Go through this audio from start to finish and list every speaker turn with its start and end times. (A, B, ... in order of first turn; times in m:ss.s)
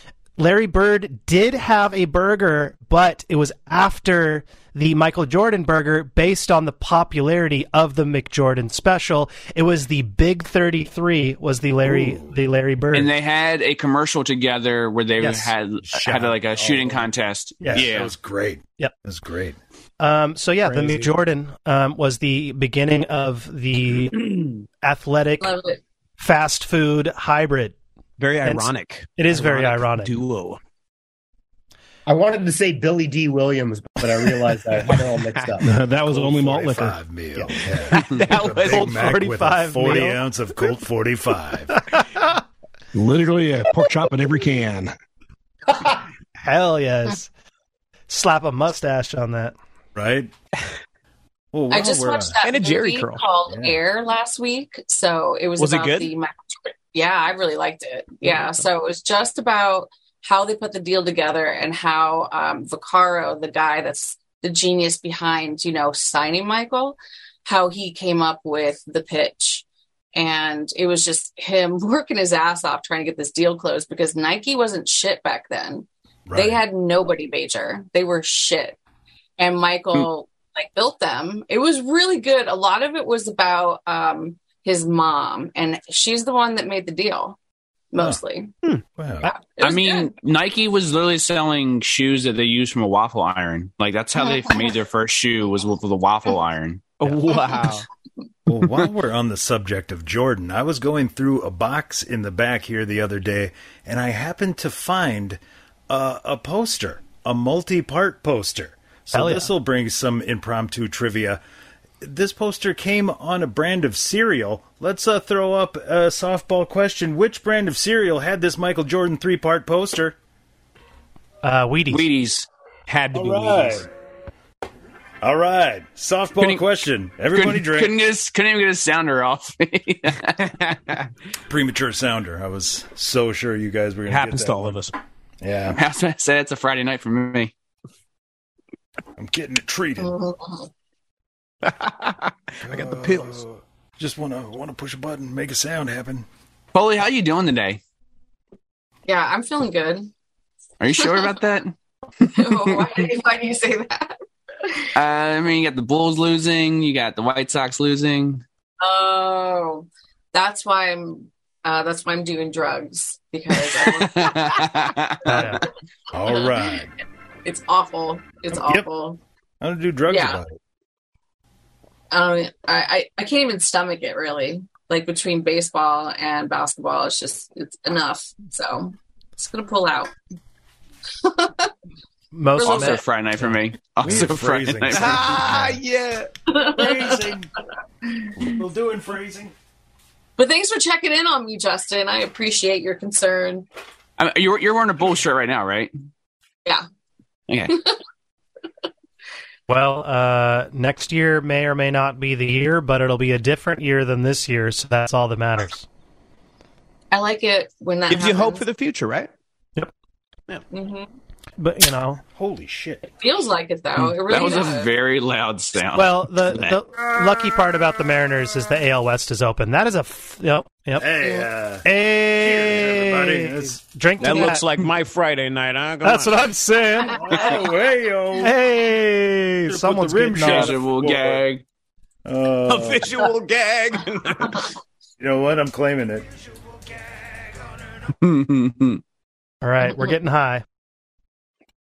0:00.4-0:13.1 A
0:11.8-0:12.4 B
0:12.9-0:18.1 C
0:15.2-0:15.5 A
0:15.8-0:17.1 B
0:17.6-0:17.9 A
0:17.6-0:19.6 B
0:20.0-0:25.6 A
0:20.6-0:21.1 D
0:25.4-0:25.8 E
0:26.2-0:27.8 A
0:28.2-0:30.6 D
0:28.4-0:30.2 A
0:32.1-0:35.7 F
0:34.9-0:35.5 D
0:35.6-0:37.0 G
0:36.1-0:41.8 B
0:37.6-0:38.9 D
0:38.0-0:38.9 C
0:38.7-0:40.2 A
0:41.9-0:42.4 A
0:42.9-0:44.9 G
0:46.4-0:47.3 A
0:48.1-0:49.6 A
0:50.0-0:50.3 B
0:51.5-0:52.4 B
0:51.7-1:18.8 E
0:52.4-0:53.2 D
0:53.5-0:53.8 B
0:55.6-0:56.1 D
1:16.3-1:16.6 B
1:19.4-1:27.4 E
1:27.9-1:28.5 E
1:29.0-1:29.3 B
1:29.2-1:30.1 E
1:29.6-1:37.0 C
1:34.3-1:34.7 E
1:37.0-1:37.9 D
1:38.5-1:51.4 B
1:49.1-1:49.5 A
1:52.0-2:00.2 B
2:01.4-2:02.1 A
2:01.9-2:02.5 C
2:02.9-2:03.9 D
2:03.1-2:03.9 B
2:05.2-2:08.0 B
2:06.4-2:06.6 C
2:07.3-2:10.8 C
2:11.5-2:14.8 B
2:14.1-2:15.0 D
2:15.4-2:15.8 B
2:15.7-2:17.5 C
2:19.2-2:20.2 B
2:20.0-2:20.7 E
2:21.6-2:23.4 D
2:22.6-2:26.3 B
2:26.7-2:27.8 C
2:29.1-2:30.1 E
2:30.8-2:32.9 C
2:31.0-2:31.4 E
2:32.3-2:34.8 E
2:35.0-2:38.4 C
2:38.8-2:44.7 E
2:43.6-2:45.6 C
2:45.3-2:45.6 A
2:46.1-2:46.9 B
2:46.3-2:46.8 E
2:47.4-2:49.2 E
2:48.5-2:48.9 B
2:49.6-2:50.6 B
2:50.1-2:50.4 E
2:52.1-3:00.1 E
3:01.2-3:01.7 E
3:02.3-3:03.5 A
3:02.6-3:03.0 E
3:02.6-3:05.4 C
3:04.0-3:05.8 B
3:04.9-3:06.3 D
3:06.5-3:07.3 E
3:06.7-3:07.5 B
3:08.2-3:08.5 E
3:08.4-3:09.5 B
3:10.4-3:13.7 E
3:14.2-3:15.9 C
3:17.5-3:17.8 C
3:17.7-3:18.0 E
3:19.7-3:25.9 A
3:27.1-3:28.6 E
3:28.1-3:29.3 D
3:30.7-3:31.1 E
3:31.6-3:32.2 A
3:32.3-3:33.1 B
3:33.2-3:34.9 E
3:34.2-3:36.8 C
3:35.9-3:41.1 A
3:41.0-3:43.8 B
3:41.8-3:44.6 A
3:44.2-3:46.4 D
3:46.0-3:47.5 A
3:47.1-3:48.6 B
3:48.4-3:50.8 A
3:49.1-3:51.4 B
3:50.4-3:51.6 C
3:52.2-3:53.3 B
3:52.7-3:54.7 D
3:55.2-3:56.3 B
3:58.2-3:59.0 C
3:59.6-4:00.6 A